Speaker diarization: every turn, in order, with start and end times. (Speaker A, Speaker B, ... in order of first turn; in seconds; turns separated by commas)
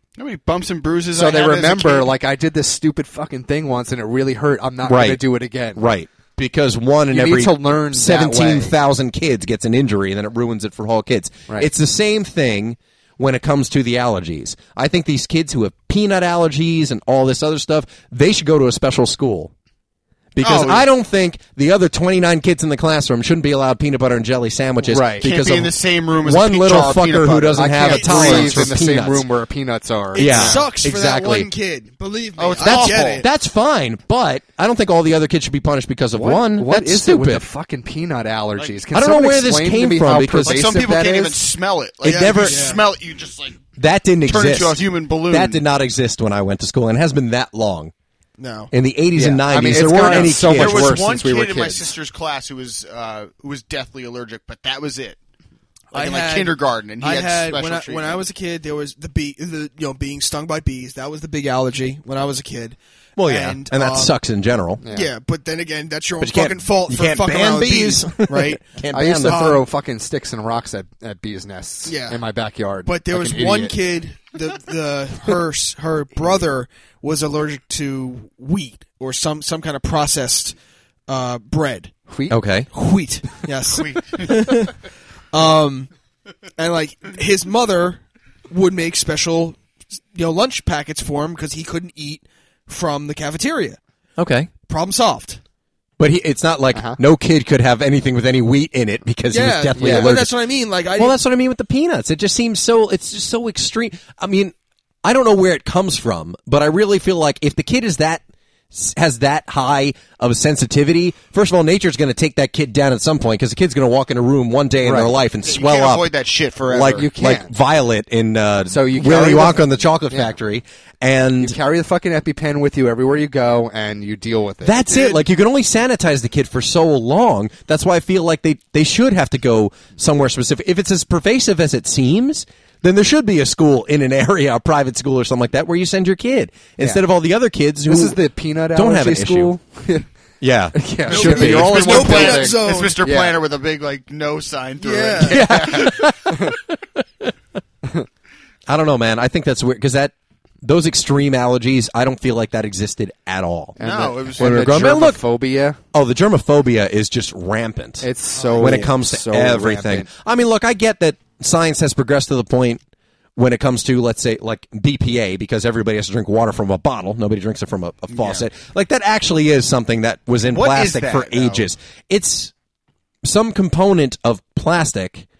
Speaker A: 0.2-2.1, Speaker B: 1.1-5.8, Speaker C: 4.9-5.2, Speaker C: 5.8-19.5, Speaker B: 7.1-8.7, Speaker C: 20.4-29.3, Speaker A: 20.4-20.8, Speaker B: 24.8-25.3, Speaker A: 25.2-28.6, Speaker B: 27.6-30.6, Speaker D: 27.9-28.7, Speaker C: 30.1-31.5, Speaker D: 30.1-33.3, Speaker A: 32.4-33.2, Speaker C: 32.6-37.5, Speaker B: 36.2-41.4, Speaker A: 38.6-38.8, Speaker C: 38.9-40.7, Speaker A: 40.4-43.6, Speaker C: 42.0-42.8, Speaker D: 42.0-42.8, Speaker C: 43.8-47.9, Speaker A: 44.2-45.6, Speaker D: 48.4-48.7, Speaker C: 48.7-51.0, Speaker B: 49.1-51.9, Speaker A: 50.0-55.2, Speaker A: 55.9-58.2, Speaker D: 55.9-64.1, Speaker C: 63.2-64.8, Speaker B: 64.8-65.1, Speaker D: 64.9-68.6, Speaker C: 66.2-69.5, Speaker B: 68.9-73.7, Speaker D: 69.2-69.6, Speaker D: 71.9-72.2, Speaker D: 72.8-80.6, Speaker D: 81.1-81.9, Speaker B: 82.1-82.4, Speaker C: 82.3-82.7, Speaker D: 82.7-84.8, Speaker A: 83.8-84.6, Speaker D: 85.3-85.9, Speaker D: 86.6-89.6, Speaker D: 90.1-93.8, Speaker C: 94.2-94.5, Speaker D: 94.7-95.4, Speaker C: 96.0-100.4, Speaker B: 96.7-97.0, Speaker D: 99.3-101.2, Speaker B: 99.8-100.1, Speaker C: 101.0-116.1, Speaker B: 114.8-115.1, Speaker A: 115.4-117.1, Speaker C: 116.7-121.6, Speaker B: 116.9-117.5, Speaker B: 118.7-120.3, Speaker B: 121.4-125.2, Speaker C: 124.6-138.2, Speaker B: 137.9-140.1, Speaker C: 138.7-139.5, Speaker C: 140.4-141.8, Speaker B: 140.8-143.4, Speaker A: 141.1-146.1, Speaker D: 141.2-143.0, Speaker D: 144.8-145.4, Speaker C: 145.2-147.3, Speaker B: 145.4-146.6, Speaker C: 148.7-153.8, Speaker B: 153.8-155.8, Speaker A: 153.8-154.7, Speaker C: 154.3-155.2, Speaker C: 155.9-162.8, Speaker B: 158.0-160.1, Speaker A: 158.4-158.8, Speaker C: 163.4-172.5, Speaker A: 168.1-168.4, Speaker A: 170.5-171.7, Speaker C: 173.2-175.3